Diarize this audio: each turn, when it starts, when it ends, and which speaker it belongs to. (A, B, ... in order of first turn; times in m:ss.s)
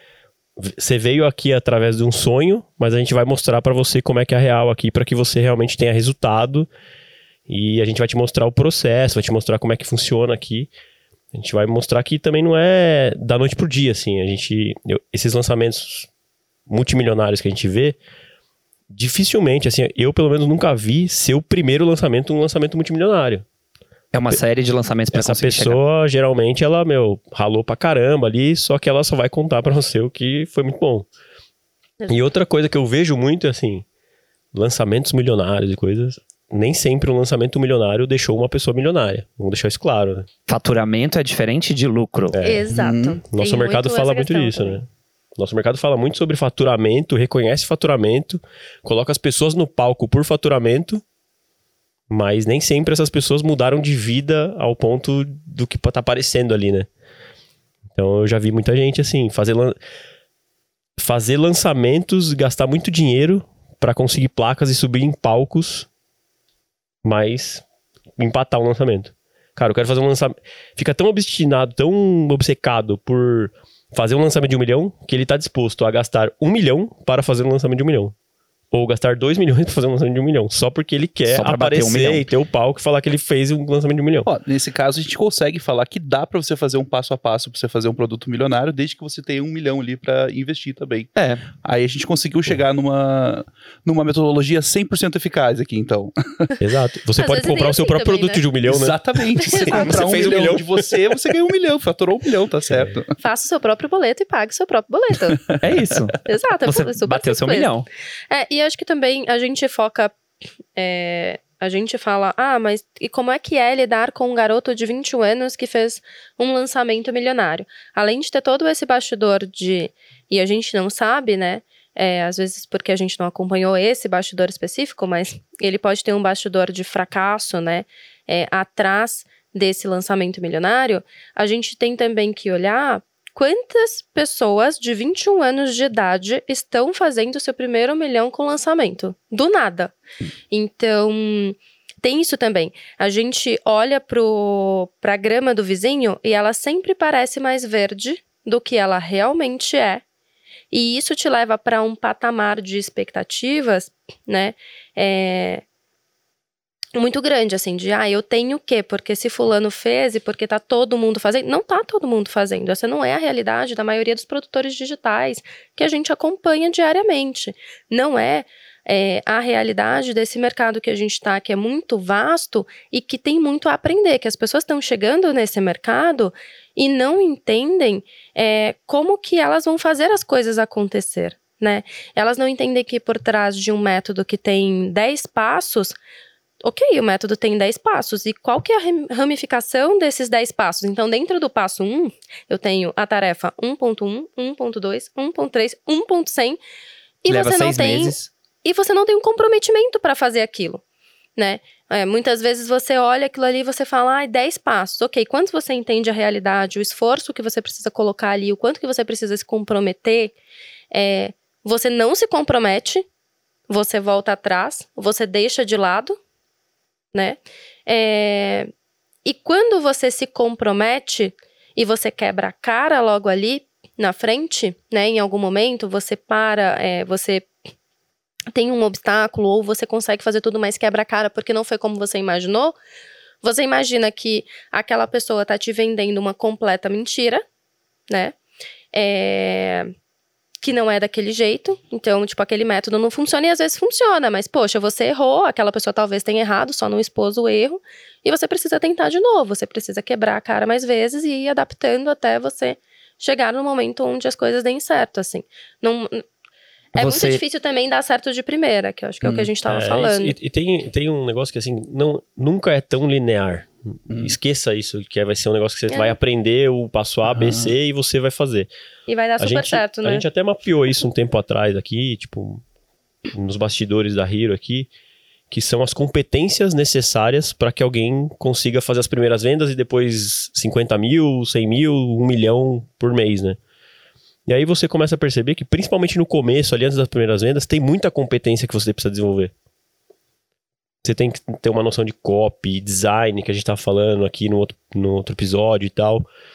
0:00.6-0:06.7 A
0:07.5-0:10.7 A
0:11.3-0:16.1 A
0:16.7-0:18.0 A
0:18.9-0:23.4 A
0:24.1-0:25.8 B
0:25.1-0:31.1 A
0:32.0-0:32.3 C
0:32.1-0:33.8 A
0:34.5-0:40.3 A
0:40.5-0:42.4 B
0:42.3-0:42.6 A
0:42.4-0:44.8 C
0:42.7-0:43.2 D
0:43.3-0:51.0 A
0:52.1-0:56.9 A
0:58.0-0:59.8 A
1:01.0-1:05.9 A
1:07.0-1:07.6 A
1:08.2-1:18.1 A
1:18.7-1:24.3 A
1:21.3-1:22.3 B
1:24.2-1:36.5 D
1:31.2-1:31.4 B
1:36.6-1:39.0 A
1:37.2-1:38.4 C
1:38.7-1:43.1 D
1:39.4-1:40.2 C
1:39.5-1:41.0 A
1:43.2-1:45.4 C
1:45.5-1:46.1 D
1:45.6-1:47.9 B
1:46.2-1:47.7 C
1:48.3-1:50.2 C
1:50.8-2:20.0 C
2:20.5-2:30.0 C
2:30.7-2:35.6 C
2:37.0-3:06.0 C
3:06.6-3:16.6 C
3:17.2-3:20.8 C
3:17.3-3:18.3 B
3:21.4-3:30.3 C
3:30.9-3:33.0 C
3:33.7-3:36.2 C
3:37.1-3:38.7 C
3:39.2-3:47.5 C
3:48.5-3:52.8 C
3:53.4-3:57.4 C
3:58.1-3:58.4 C
3:58.9-3:59.9 C
4:00.6-4:16.2 C
4:16.9-4:20.4 C
4:17.0-4:17.4 B
4:19.7-4:28.7 A
4:24.1-4:24.4 D
4:25.9-4:26.2 C
4:27.3-4:27.7 D
4:29.1-4:30.2 C
4:29.4-4:32.6 A
4:33.3-4:34.9 A
4:35.5-4:43.6 A
4:44.5-4:49.5 A
4:51.0-4:56.3 A